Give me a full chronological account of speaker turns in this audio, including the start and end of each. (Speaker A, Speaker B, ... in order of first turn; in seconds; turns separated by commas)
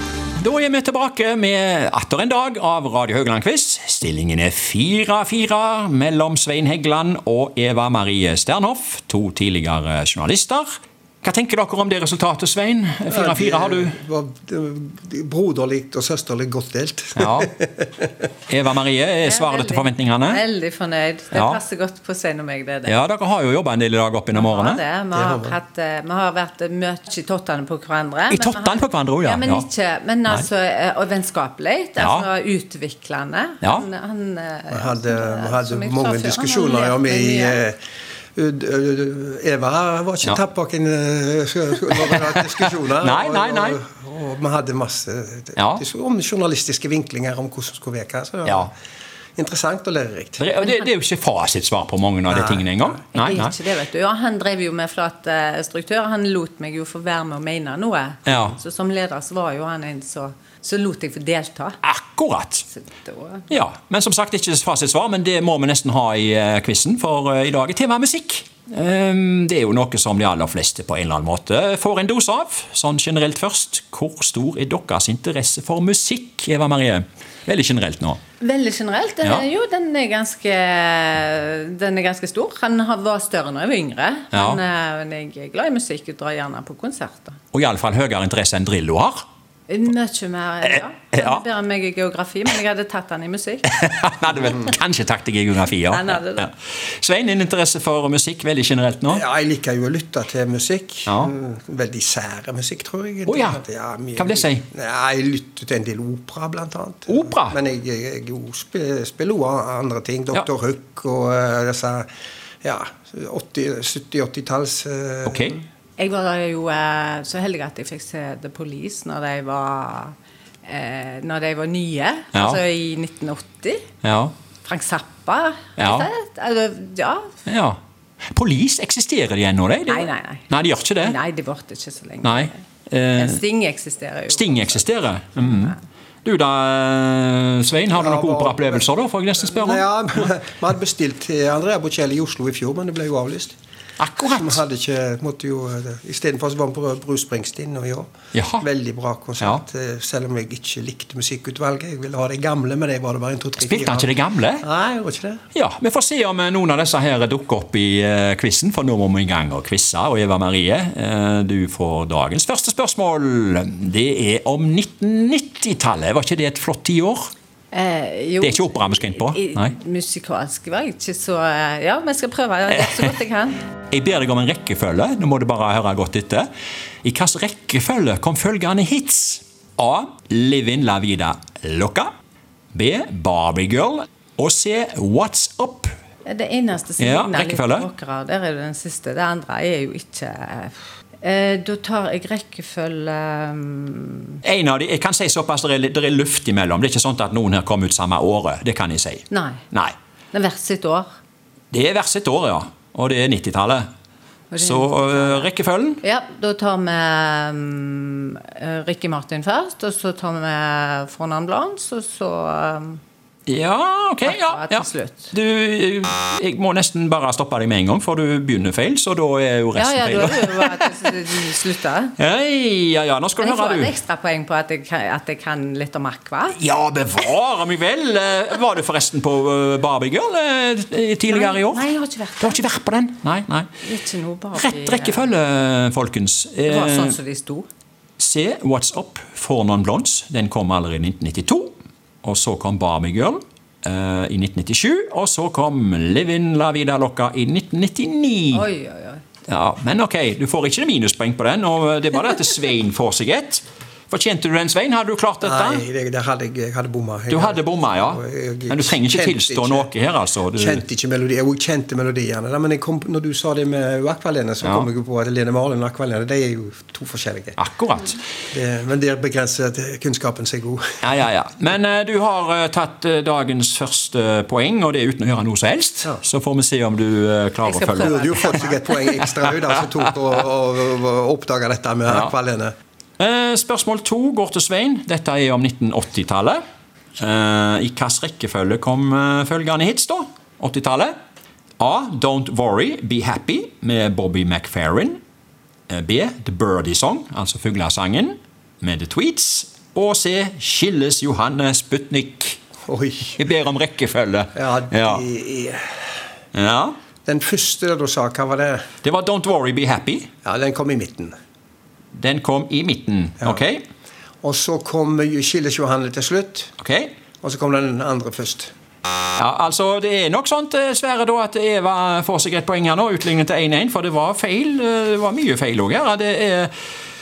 Speaker A: 0.4-10.7, Speaker A: 11.2-14.0, Speaker B: 13.1-18.1, Speaker A: 17.2-17.5, Speaker A: 18.5-20.4, Speaker C: 19.2-23.0, Speaker A: 21.3-21.6, Speaker A: 22.9-24.8, Speaker C: 24.3-37.6, Speaker B: 25.1-25.6, Speaker A: 28.3-29.6, Speaker A: 32.0-32.3, Speaker A: 33.6-33.9, Speaker B: 34.7-37.8, Speaker B: 38.4-48.7, Speaker A: 42.0-43.8, Speaker A: 45.5-45.8, Speaker A: 48.5-48.7, Speaker B: 49.4-50.4, Speaker A: 50.4-53.5, Speaker B: 52.3-52.7, Speaker C: 53.1-61.8, Speaker A: 58.2-58.5, Speaker A: 61.8-62.6, Speaker C: 62.7-63.5, Speaker A: 63.5-78.2, Speaker C: 78.4-87.4, Speaker A: 84.3-84.6, Speaker A: 87.5-89.2, Speaker C: 89.7-93.8, Speaker A: 90.7-91.4, Speaker A: 93.7-99.2, Speaker C: 94.3-94.6, Speaker C: 95.8-96.5, Speaker B: 99.1-112.1, Speaker A: 103.2-103.6, Speaker A: 104.2-104.6, Speaker A: 107.1-107.5, Speaker B: 112.6-115.6, Speaker A: 115.2-115.6, Speaker C: 116.0-120.1, Speaker C: 120.7-123.9, Speaker A: 122.3-122.6, Speaker A: 124.0-124.3, Speaker C: 124.6-127.3, Speaker A: 125.8-126.1, Speaker A: 127.5-127.8, Speaker A: 128.3-131.2, Speaker C: 129.9-130.4, Speaker C: 130.9-132.6, Speaker A: 132.2-133.4, Speaker C: 133.2-134.8, Speaker A: 134.3-139.8, Speaker C: 135.4-135.8, Speaker B: 137.9-138.9, Speaker B: 139.5-143.5, Speaker A: 144.0-144.6, Speaker B: 144.3-155.4, Speaker A: 148.3-148.7, Speaker A: 153.6-154.6, Speaker A: 155.5-167.3, Speaker C: 167.7-173.6, Speaker A: 168.4-169.7, Speaker A: 172.8-173.1, Speaker A: 173.9-176.5, Speaker A: 177.0-182.1, Speaker A: 182.7-185.9, Speaker C: 186.2-194.4, Speaker A: 187.0-187.9, Speaker A: 194.4-199.9, Speaker C: 199.3-199.6, Speaker C: 200.3-201.1, Speaker A: 201.7-203.8, Speaker C: 204.5-205.5, Speaker A: 204.6-206.0, Speaker C: 206.0-213.0, Speaker A: 213.5-221.1, Speaker C: 214.2-215.3, Speaker C: 219.8-222.2, Speaker A: 222.2-223.9, Speaker C: 223.4-226.6, Speaker A: 226.5-231.9, Speaker C: 231.3-232.7, Speaker A: 232.4-233.7, Speaker C: 233.8-235.3, Speaker A: 234.5-237.2, Speaker C: 236.7-237.7, Speaker A: 238.2-248.7, Speaker C: 248.5-249.2, Speaker A: 249.5-255.8, Speaker B: 255.4-259.9, Speaker A: 257.3-260.8, Speaker B: 260.5-267.6, Speaker A: 264.6-264.9, Speaker A: 267.6-268.2, Speaker B: 268.5-271.0, Speaker A: 271.0-278.6, Speaker C: 277.6-278.8, Speaker B: 278.0-282.7, Speaker A: 283.2-286.6, Speaker A: 287.2-291.1, Speaker A: 291.8-295.2, Speaker A: 295.9-302.6, Speaker B: 302.9-303.4, Speaker A: 303.4-305.2, Speaker B: 304.5-305.9, Speaker A: 306.5-306.9, Speaker B: 307.2-308.9, Speaker A: 309.0-310.3, Speaker B: 310.4-311.3, Speaker A: 312.1-313.8, Speaker B: 314.4-316.7, Speaker A: 316.8-317.1, Speaker B: 317.4-318.7, Speaker A: 319.4-326.7